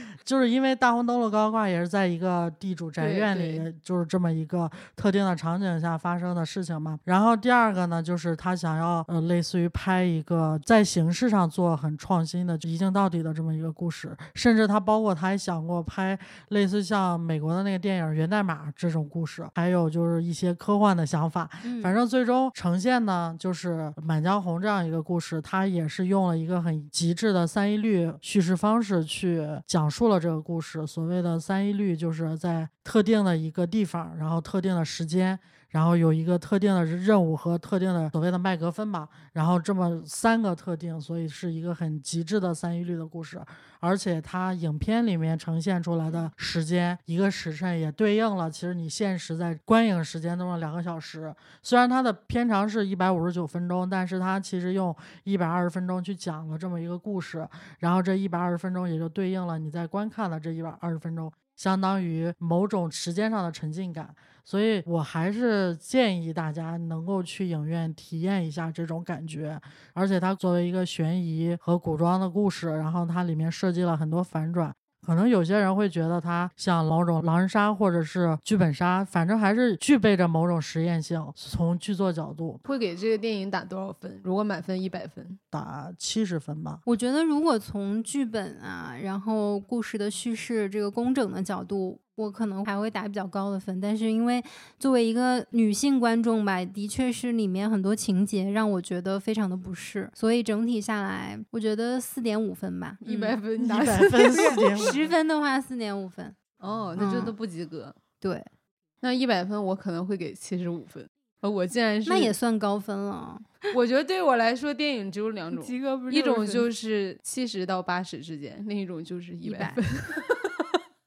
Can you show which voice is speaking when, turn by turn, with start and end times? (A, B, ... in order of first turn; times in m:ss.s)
0:00.2-1:22.6 A
0:03.0-0:03.6 B
0:21.6-0:22.0 C
1:22.6-1:25.4 B
1:25.5-1:26.8 A
1:26.9-1:43.4 C
1:43.0-1:44.9 B
1:43.6-1:45.1 A
1:44.3-1:46.4 C
1:46.6-1:48.0 B
1:47.0-1:47.4 C
1:48.2-1:48.5 C
1:49.0-1:52.4 B
1:52.1-1:53.7 C
1:53.7-2:00.6 B
1:55.6-1:56.6 C
1:59.4-1:59.8 C